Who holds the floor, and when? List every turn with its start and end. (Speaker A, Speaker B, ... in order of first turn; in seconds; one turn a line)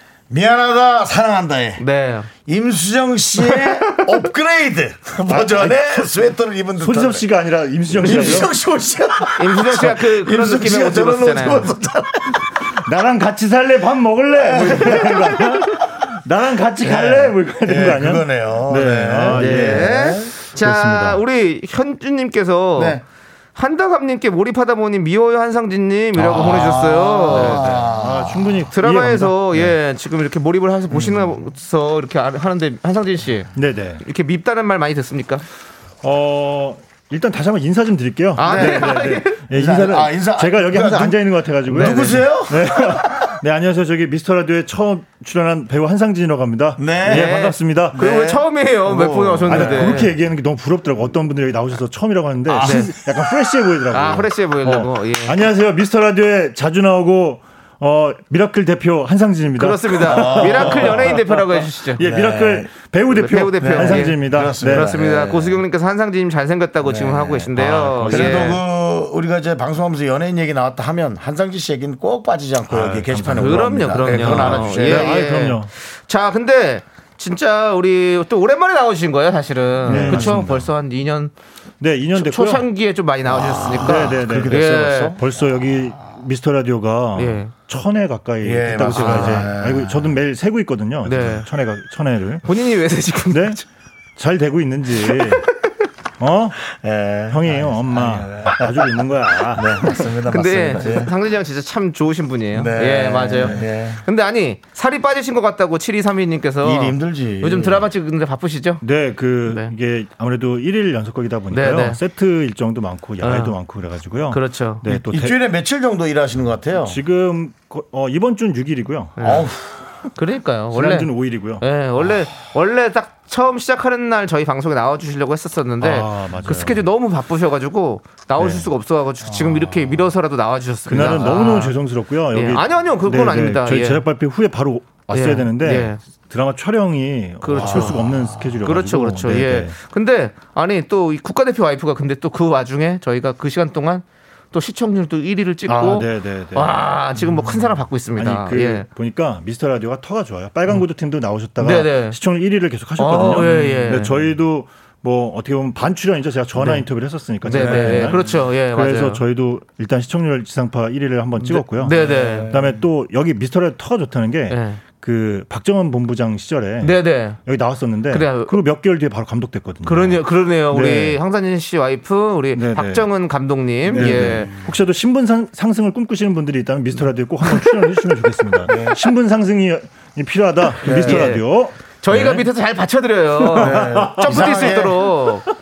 Speaker A: 0.3-1.8
Speaker B: 1.8-2.3
Speaker A: 2.5-7.2
Speaker B: 3.4-4.3
Speaker C: 5.3-6.1
Speaker C: 6.8-8.5
Speaker A: 7.9-12.7
Speaker B: 8.0-8.5
Speaker B: 9.3-11.7
Speaker C: 12.7-21.2
Speaker A: 14.4-15.4
Speaker B: 14.6-15.7
Speaker A: 16.8-20.3
Speaker B: 19.3-23.0
Speaker A: 22.8-23.0
Speaker B: 23.6-27.8
Speaker A: 26.2-28.6
Speaker C: 26.3-26.8
Speaker C: 27.3-29.8
Speaker B: 28.7-35.5
Speaker A: 30.9-31.3
Speaker C: 33.5-34.0
Speaker C: 36.0-48.1
Speaker B: 38.4-39.4
Speaker A: 38.4-43.3
Speaker B: 41.8-42.1
Speaker A: 46.8-47.4
Speaker B: 47.0-50.1
Speaker A: 47.9-50.0
Speaker C: 49.5-61.3
Speaker A: 52.5-52.9
Speaker B: 52.6-52.9
Speaker B: 53.9-55.5
Speaker B: 59.6-62.1
Speaker A: 60.0-61.4
Speaker C: 62.0-64.9
Speaker A: 62.0-62.7
Speaker B: 63.1-68.6
Speaker A: 63.6-65.6
Speaker A: 66.8-75.1
Speaker C: 67.5-68.6
Speaker C: 72.7-75.7
Speaker B: 73.3-81.3
Speaker A: 79.8-80.6
Speaker C: 79.8-80.6
Speaker C: 81.8-82.7
Speaker B: 82.2-85.2
Speaker A: 83.3-85.2
Speaker C: 83.7-92.5
Speaker B: 87.2-87.5
Speaker A: 88.4-90.2
Speaker B: 88.9-89.5
Speaker B: 91.0-91.5
Speaker B: 92.5-93.6
Speaker C: 93.3-93.6
Speaker C: 94.2-95.5
Speaker B: 95.1-95.7
Speaker C: 96.2-96.6
Speaker A: 96.7-101.1
Speaker C: 97.3-100.1
Speaker B: 100.3-108.8
Speaker A: 102.5-104.0
Speaker A: 106.6-107.9
Speaker C: 108.8-115.4
Speaker B: 109.5-109.7
Speaker B: 111.5-112.0
Speaker B: 113.2-113.6
Speaker B: 114.3-114.8
Speaker A: 114.8-117.0
Speaker C: 116.8-119.2
Speaker B: 119.2-119.5
Speaker A: 119.2-119.7
Speaker B: 120.2-131.8
Speaker C: 120.7-121.6
Speaker C: 125.8-126.9
Speaker C: 128.4-128.7
Speaker A: 129.2-130.1
Speaker C: 130.9-139.8
Speaker B: 132.3-134.1
Speaker B: 135.1-136.0
Speaker B: 137.4-138.1
Speaker A: 137.5-138.6
Speaker B: 138.6-148.9
Speaker C: 145.7-146.9
Speaker C: 148.2-171.2
Speaker B: 151.6-152.2
Speaker B: 153.0-154.1
Speaker A: 153.2-153.8
Speaker B: 156.6-156.8
Speaker B: 157.4-159.2
Speaker A: 157.5-158.4
Speaker B: 161.4-162.5
Speaker A: 161.8-162.8
Speaker B: 164.5-164.8
Speaker B: 166.8-167.4
Speaker B: 168.1-168.6
Speaker B: 169.8-174.5
Speaker C: 172.5-173.1
Speaker A: 173.9-174.7
Speaker C: 173.9-182.5
Speaker A: 178.7-179.0
Speaker A: 180.8-181.3
Speaker B: 180.8-181.4
Speaker B: 182.0-185.5
Speaker C: 183.4-185.5
Speaker A: 183.6-185.1